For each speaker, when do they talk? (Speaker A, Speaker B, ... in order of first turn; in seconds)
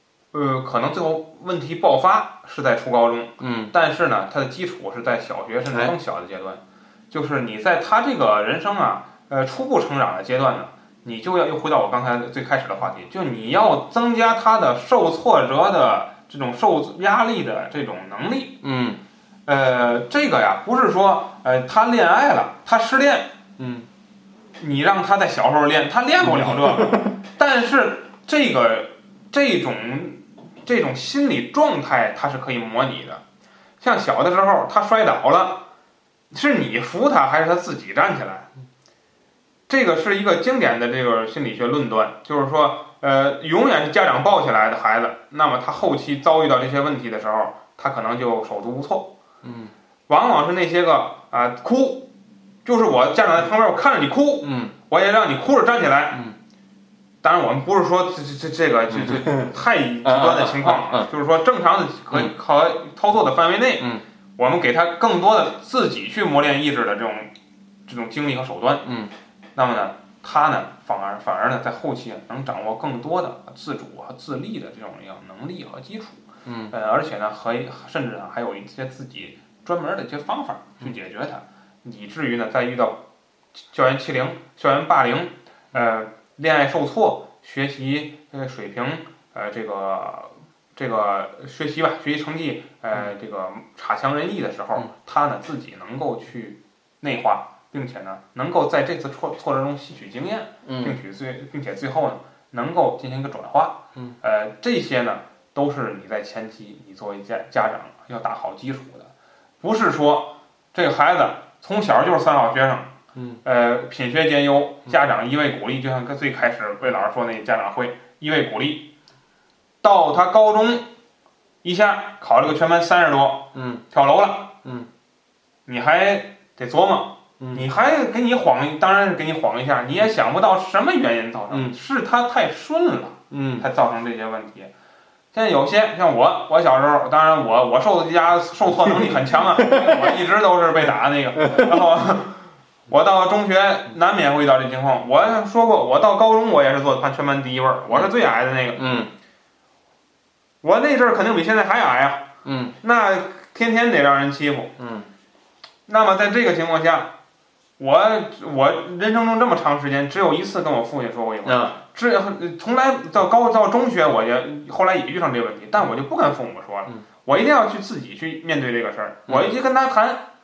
Speaker A: 0.3-18.6, 19.5-23.3, 24.6-33.2, 33.8-35.7, 36.3-38.5, 39.7-49.1, 50.1-52.1, 52.6-56.2, 57.2-67.3, 67.9-68.9, 69.6-83.0, 83.7-109.1, 109.6-118.9, 119.8-120.9, 121.6-124.6, 125.7-134.7, 135.3-149.1, 150.6-152.3, 152.8-154.7, 155.9-157.1, 157.8-170.3
Speaker B: 3.4-3.7, 18.6-19.0, 23.6-23.9, 26.2-26.9, 49.4-49.7, 54.4-54.7, 58.9-59.5, 60.0-61.1, 68.8-69.1, 76.5-76.7, 100.7-101.0, 113.2-113.4, 123.5-123.8, 127.4-127.7, 131.5-131.8, 133.3-133.7, 139.6-140.2, 148.8-149.1, 152.4-152.8, 154.8-155.1, 161.4-161.8, 169.3-169.5